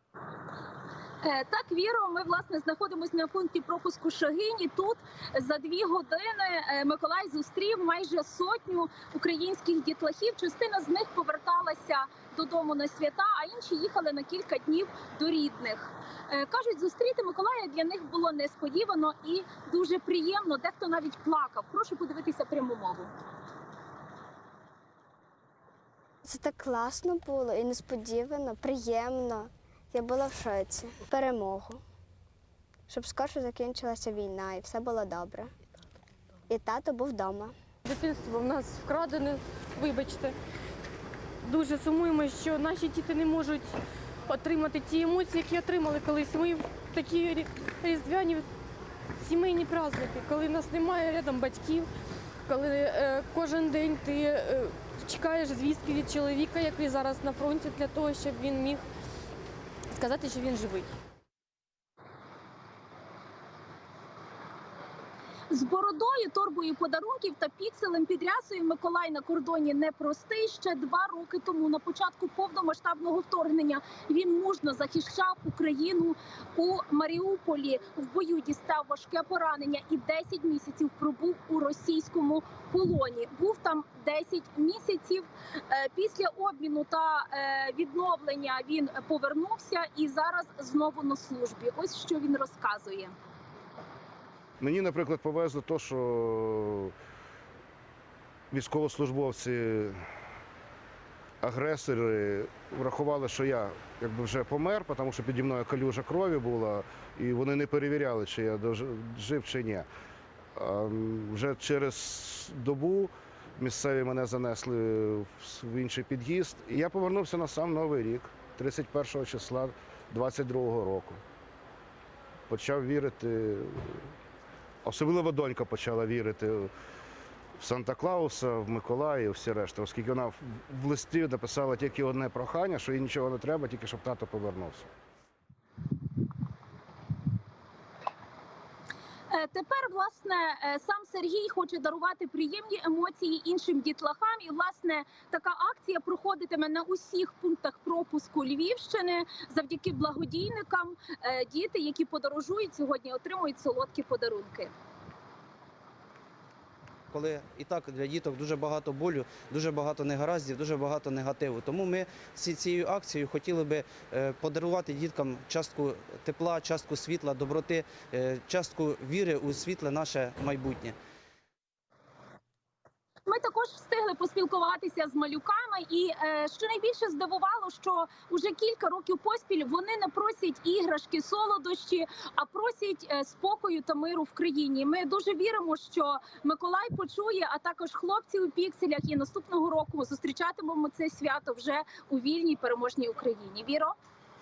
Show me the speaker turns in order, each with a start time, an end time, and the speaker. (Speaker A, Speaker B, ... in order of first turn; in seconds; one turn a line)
Speaker A: 1.2-23.1
Speaker B: 26.2-31.8
Speaker B: 32.9-35.5
Speaker B: 36.5-37.5
Speaker C: 37.9-40.4
Speaker C: 41.4-43.7
Speaker C: 44.3-48.5
Speaker C: 49.2-51.9
Speaker C: 52.5-58.8
Speaker C: 60.0-60.9
Speaker A: 65.5-93.1
Speaker D: 94.6-96.9
Speaker D: 98.5-100.0
Speaker D: 101.4-109.9
Speaker D: 110.6-121.2
Speaker D: 122.5-124.0
Speaker D: 124.8-126.7
Speaker D: 127.6-134.9
Speaker A: 139.3-154.7
Speaker E: 157.1-171.0
Speaker A: 173.3-193.9